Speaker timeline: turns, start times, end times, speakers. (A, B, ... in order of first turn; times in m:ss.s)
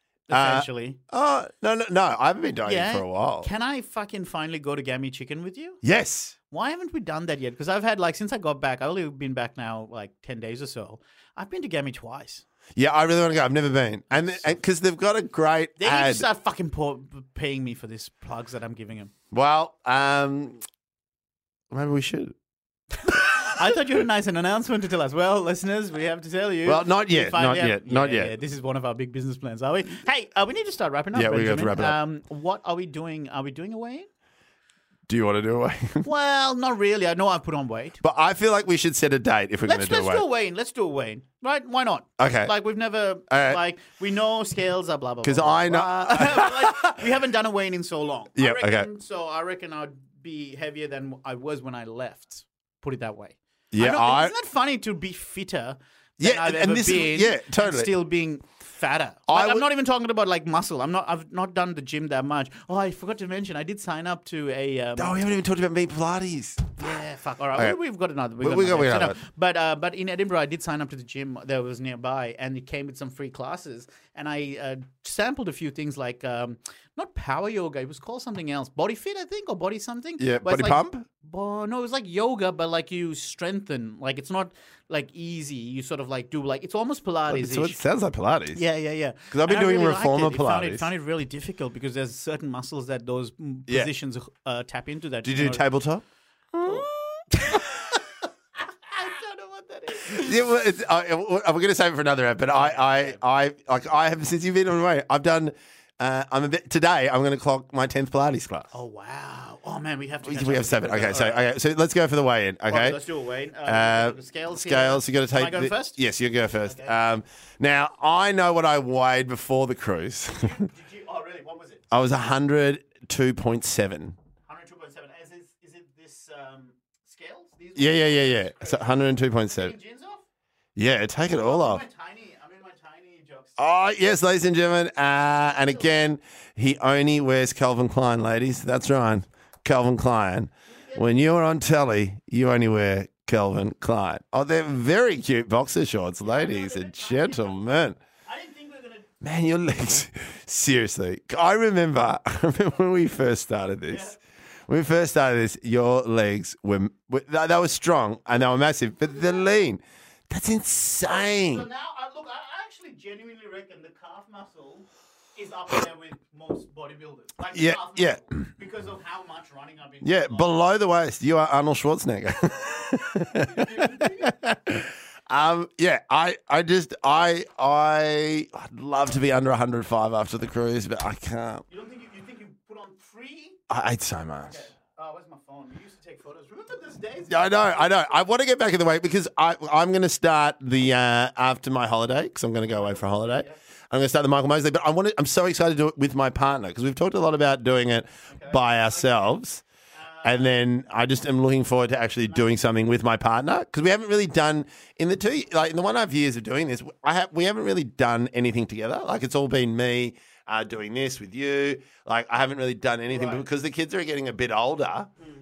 0:00.3-0:01.0 A
0:00.3-0:03.5 B
0:02.6-0:05.8 A
0:05.8-0:06.4 B
0:06.5-0:12.4 A
0:12.8-0:16.2 B
0:14.1-0:14.5 A
0:15.8-0:19.1 A
0:19.3-0:20.6 B
0:21.7-0:22.3 B
0:23.1-0:23.8 B
0:23.1-0:34.1 A
0:26.6-0:28.3 B
0:31.1-0:32.0 B
0:35.1-0:36.1 B
0:36.0-0:38.0 A
0:38.0-0:40.2 B
0:39.6-1:05.2 A
0:42.2-0:42.5 B
0:43.3-0:43.6 B
0:45.2-0:47.0 B
0:48.4-0:48.9 B
0:53.7-0:54.3 B
0:56.2-0:57.9 B
0:59.3-0:59.6 B
1:05.0-1:06.8 B
1:06.8-1:27.8 A
1:08.4-1:09.2 B
1:20.2-1:21.1 B
1:27.3-1:28.6 B
1:28.5-1:35.6 A
1:29.3-1:30.9 B
1:35.2-1:37.6 B
1:36.6-1:38.0 A
1:38.8-1:40.4 A
1:40.0-1:48.7 B
1:42.5-1:43.2 A
1:48.7-1:51.4 A
1:50.2-1:53.0 B
1:52.7-1:56.0 A
1:53.6-2:00.6 B
1:56.6-1:56.9 A
2:00.3-2:01.8 A
2:01.9-2:04.2 B
2:04.5-2:10.2 A
2:07.8-2:09.7 B
2:10.8-2:11.8 B
2:11.3-2:13.6 A
2:13.6-2:28.0 B
2:20.7-2:21.2 A
2:26.2-2:27.7 A
2:28.2-2:29.1 A
2:29.2-2:34.1 B
2:33.9-2:34.2 A
2:34.7-2:41.7 B
2:41.0-2:50.6 A
2:47.5-2:48.3 B
2:50.0-3:01.6 B
2:53.4-2:54.4 A
3:01.7-3:03.6 A
3:03.7-3:04.6 B
3:04.4-3:08.1 A
3:07.3-3:19.6 B
3:12.7-3:13.6 A
3:18.3-3:19.4 A
3:20.0-3:20.5 A
3:20.2-3:35.1 B
3:33.1-3:33.4 A